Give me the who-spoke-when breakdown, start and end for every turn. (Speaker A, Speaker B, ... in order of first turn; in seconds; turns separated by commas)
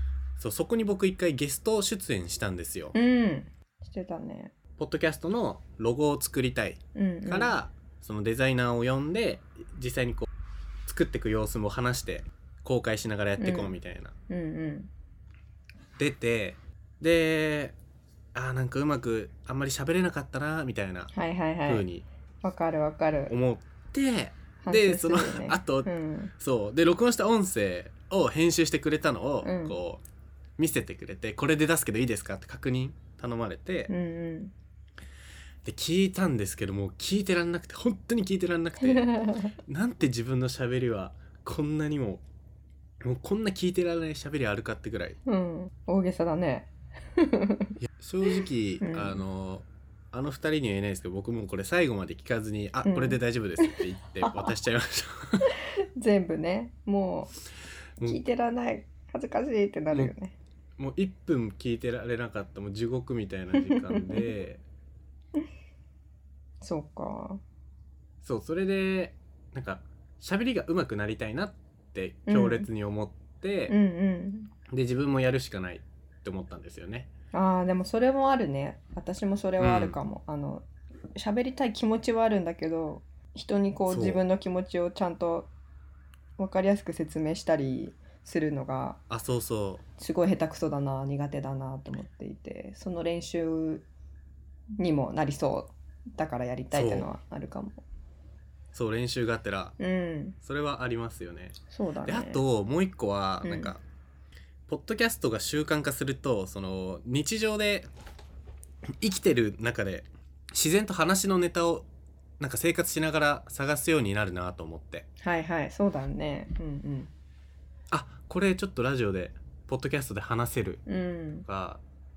Speaker A: 0.4-2.9, Speaker B: 2.9-4.5, Speaker A: 4.8-10.3, Speaker B: 6.9-7.6, Speaker A: 10.8-14.1, Speaker B: 13.4-13.8, Speaker B: 14.3-14.9, Speaker A: 16.0-17.8, Speaker A: 18.3-21.1, Speaker B: 21.1-21.9, Speaker A: 21.6-22.0, Speaker B: 22.4-23.3, Speaker A: 23.3-30.0, Speaker B: 24.6-26.3, Speaker B: 29.4-29.8, Speaker A: 30.6-33.9, Speaker B: 33.9-34.5, Speaker A: 35.6-42.2, Speaker B: 38.8-39.5, Speaker A: 43.0-45.2, Speaker B: 45.3-47.7, Speaker A: 48.0-55.5, Speaker B: 48.8-49.2, Speaker B: 52.8-54.5, Speaker B: 56.0-57.3, Speaker B: 58.0-60.3, Speaker A: 60.8-64.6, Speaker B: 63.7-64.2, Speaker B: 66.6-67.4, Speaker A: 68.2-73.7, Speaker B: 72.3-72.7, Speaker B: 73.7-74.5, Speaker A: 74.7-77.1, Speaker B: 77.3-80.7, Speaker A: 79.6-80.0, Speaker B: 81.2-85.5, Speaker A: 83.9-84.2, Speaker B: 86.4-89.0, Speaker A: 89.1-89.8, Speaker B: 90.0-93.8, Speaker B: 94.8-97.8, Speaker A: 96.7-97.1, Speaker A: 98.7-99.8, Speaker B: 99.8-100.3, Speaker A: 100.4-103.8, Speaker B: 101.7-102.4, Speaker B: 103.4-103.7, Speaker A: 104.7-107.9, Speaker A: 109.0-111.9, Speaker A: 112.4-115.0, Speaker B: 115.2-117.1, Speaker A: 117.9-120.8, Speaker B: 120.9-121.5, Speaker A: 121.5-121.8